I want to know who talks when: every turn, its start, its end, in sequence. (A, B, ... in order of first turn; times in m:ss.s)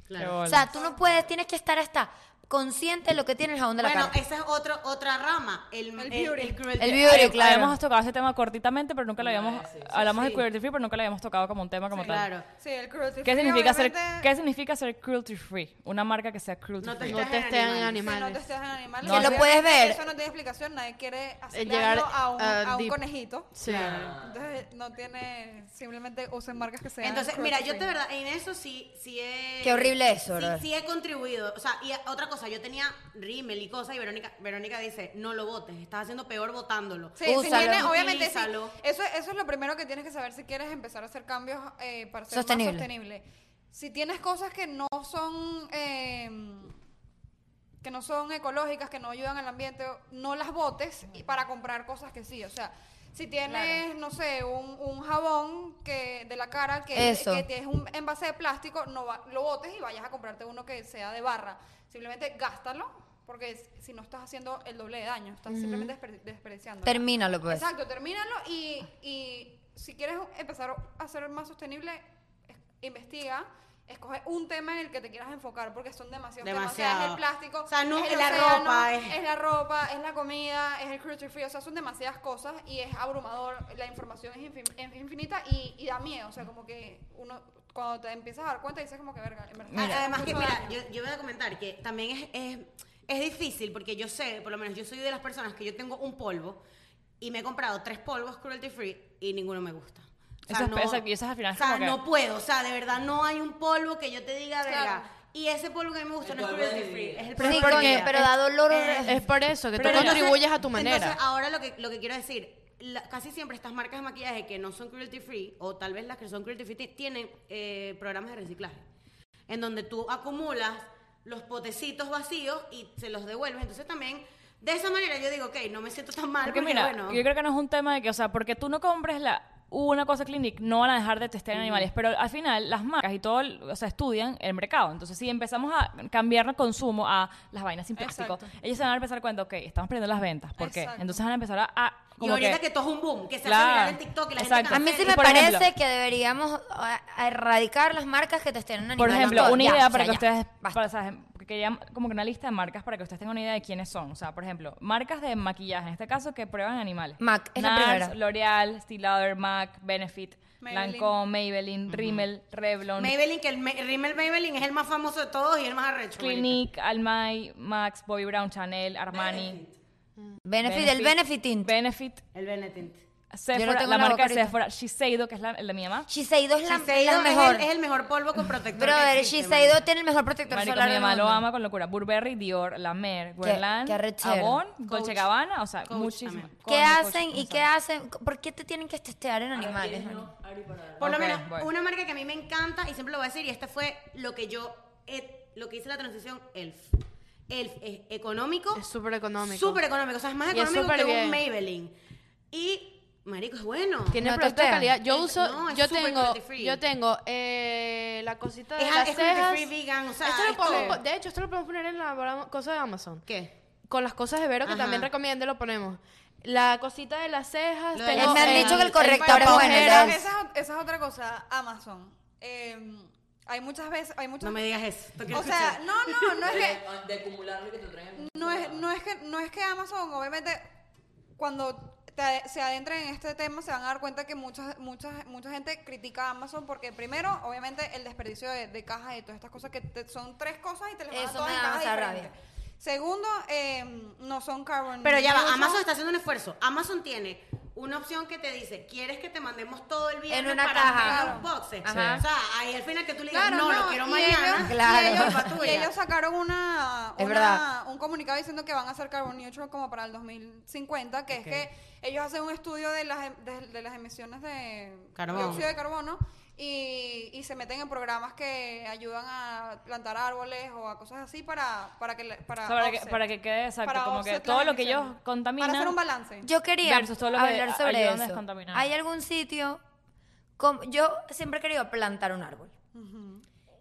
0:00.1-0:00.6 A
0:00.2-0:00.7 B
0:00.4-0:04.2 C
0:03.8-0:07.4 A
0:06.0-0:06.7 D
0:06.8-0:07.8 C
0:07.0-0:12.3 B
0:09.2-0:10.2 E
0:10.0-0:10.4 A
0:11.9-0:14.3 D
0:12.0-0:12.4 A
0:13.2-0:17.2 B
0:16.8-0:18.1 A
0:17.0-0:18.4 F
0:18.0-0:27.9 D
0:19.0-0:20.0 C
0:19.1-0:19.4 B
0:21.5-0:23.0 F
0:23.5-0:24.0 F
0:23.7-0:24.3 E
0:27.0-0:38.7 A
0:29.6-0:30.6 C
0:37.2-0:46.7 D
0:37.2-0:37.9 C
0:42.3-0:42.9 C
0:47.8-1:30.8 D
0:56.9-0:57.4 C
1:05.5-1:05.9 F
1:06.8-1:07.7 C
1:16.4-1:19.2 A
1:29.7-1:36.6 A
1:37.2-1:41.0 A
1:40.5-1:42.0 B
1:41.5-1:48.1 A
1:46.2-1:47.4 E
1:47.4-1:48.3 F
1:47.4-1:49.2 C
1:48.7-1:49.2 A
1:49.0-1:51.2 F
1:49.8-1:50.3 B
1:49.8-1:58.8 A
1:59.5-2:07.2 A
2:06.4-2:22.6 B
2:11.5-2:11.9 A
2:18.0-2:18.5 D
2:20.6-2:21.2 D
2:22.2-2:25.4 A
2:23.4-2:25.7 B
2:24.7-2:30.8 C
2:29.0-2:43.1 B
2:29.1-2:29.7 A
2:37.2-2:38.1 C
2:40.6-2:41.1 D
2:41.9-2:42.2 A
2:43.0-2:46.6 A
2:46.2-2:49.6 B
2:49.1-2:49.7 A
2:50.4-2:51.7 C
2:50.6-2:52.2 B
2:52.3-2:53.0 A
2:53.3-2:56.1 B
2:53.5-2:54.5 C
2:56.1-2:57.7 C
2:56.6-2:59.8 A
2:58.7-3:01.4 C
3:00.5-3:07.6 B
3:03.4-3:04.6 C
3:04.8-3:05.3 A
3:05.9-3:06.5 A
3:06.7-3:10.3 C
3:09.5-3:11.1 E
3:11.0-3:16.9 A
3:11.0-3:11.7 B
3:17.5-3:18.8 A
3:18.7-3:19.8 F
3:19.4-3:21.9 A
3:20.5-3:21.4 F
3:22.5-3:24.2 A
3:24.1-3:33.2 F
3:24.2-3:25.0 C
3:25.0-3:26.8 A
3:28.8-3:31.0 A
3:30.6-3:31.0 D
3:33.2-3:33.5 A
3:33.9-3:40.2 F
3:34.6-3:35.1 A
3:37.9-3:40.0 A
3:38.1-3:40.2 C
3:39.4-3:44.7 D
3:44.4-3:45.9 A
3:45.3-3:46.8 D
3:46.4-3:48.8 E
3:48.2-3:50.6 D
3:51.4-4:05.8 D
4:01.1-4:02.3 C
4:05.0-4:15.9 A
4:10.3-4:12.2 C
4:10.9-4:11.5 D
4:11.9-4:12.2 B
4:13.3-4:33.2 D
4:14.6-4:15.5 C
4:17.2-4:17.6 C
4:21.3-4:21.6 A
4:25.2-4:25.7 A
4:32.6-4:36.0 B
4:33.8-4:36.5 D
4:36.4-4:39.8 C
4:36.8-4:38.9 B
4:40.6-4:42.7 C
4:42.9-4:43.4 D